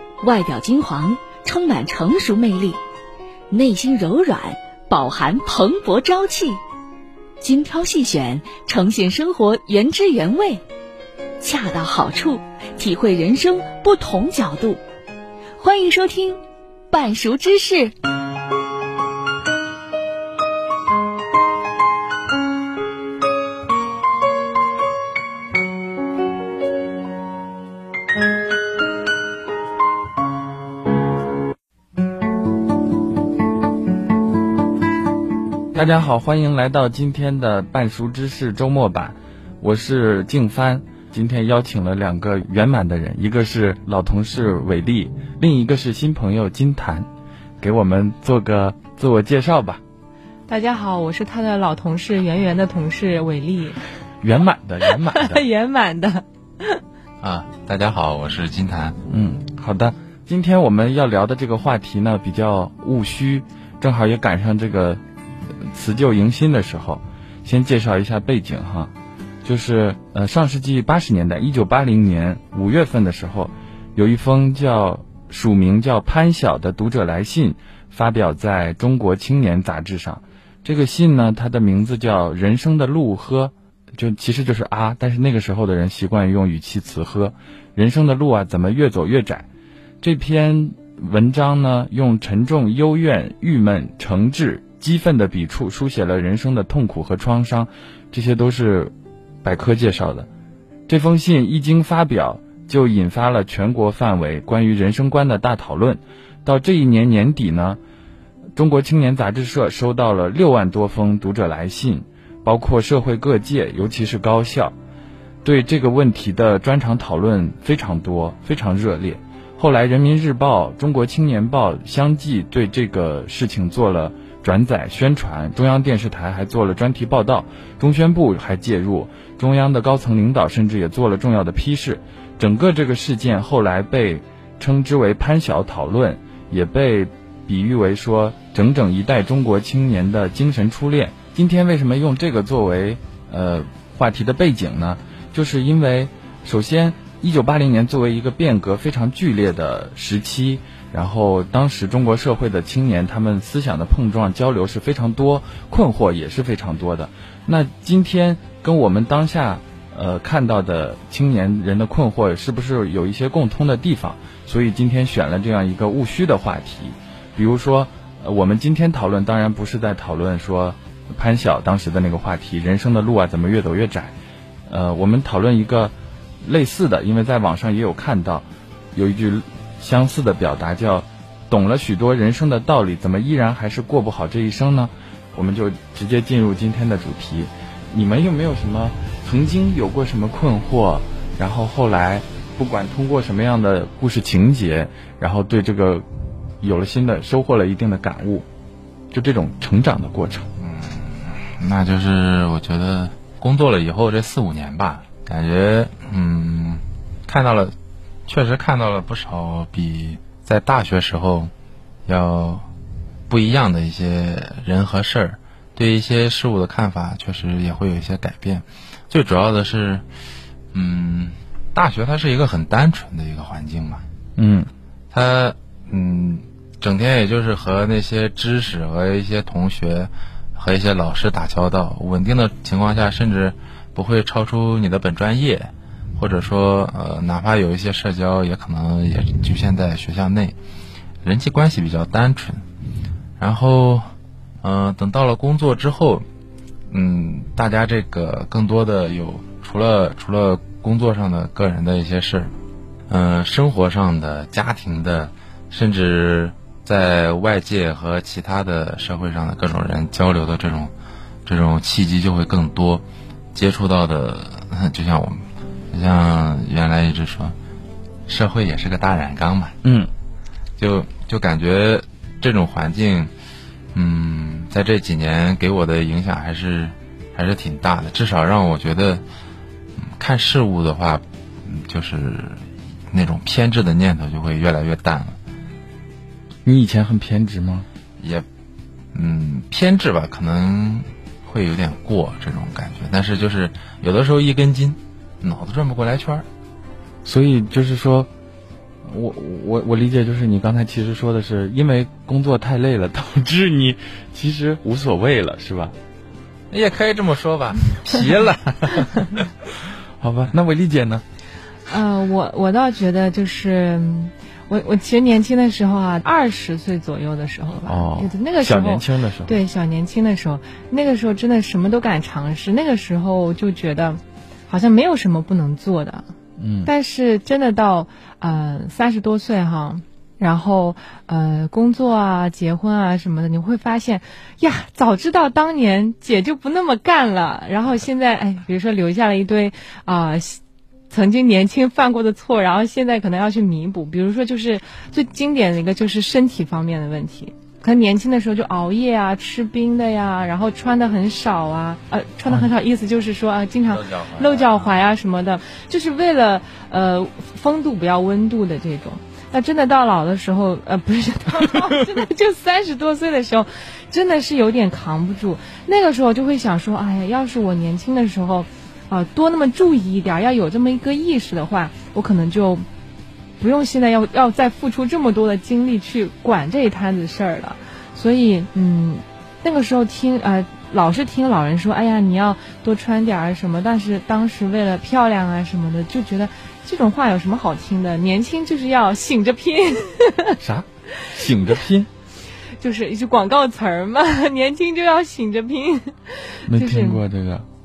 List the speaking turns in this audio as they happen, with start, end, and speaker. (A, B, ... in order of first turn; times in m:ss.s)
0:00.2-0:02.8 A
0:03.5-0:06.6 A
0:07.4-0:10.6 A
0:11.4-0:14.8 A
0:15.6-0:16.4 A
0:16.9-0:17.9 A
0:35.7-0:47.1 B
0:47.6-0:49.8 B
0:50.5-0:53.8 C
0:54.2-0:55.4 B
0:55.1-0:56.8 C
0:57.2-0:59.0 D
0:59.1-1:08.9 B
1:09.4-1:29.5 B
1:30.0-1:40.3 B
1:40.9-1:47.8 B
1:48.6-1:54.8 B
1:55.4-2:54.1 B
2:54.7-3:16.0 B
3:16.6-3:18.5 B
3:19.1-3:20.5 B
3:20.6-3:27.7 D
3:28.3-3:31.5 D
3:32.1-3:32.6 D
3:33.3-3:40.0 D
3:40.7-3:44.0 D
3:44.4-3:44.7 B
3:45.1-4:00.6 D
4:01.2-4:02.6 D
4:03.4-4:04.1 D
4:04.6-4:06.2 D
4:06.9-4:12.5 D
4:13.1-4:20.9 D
4:21.5-4:23.0 D
4:23.6-4:27.5 D
4:28.3-4:29.8 D
4:29.8-4:30.1 B
4:30.8-4:33.3 D
4:33.9-4:39.2 D
4:40.0-4:42.6 D
4:43.1-4:45.4 D
4:46.6-4:47.9 B
4:48.2-4:48.4 D
4:49.1-4:56.4 D
4:57.2-4:58.3 B
4:59.0-5:06.0 B
5:06.7-5:09.4 D
5:10.2-5:11.2 B
5:11.9-5:26.3 C
5:17.9-5:19.6 B
5:26.6-5:26.9 B
5:26.8-6:12.8 C
5:53.9-5:54.9 D
6:13.6-6:30.6 C
6:30.6-6:32.1 B
6:32.8-6:37.2 C
6:36.7-6:37.7 B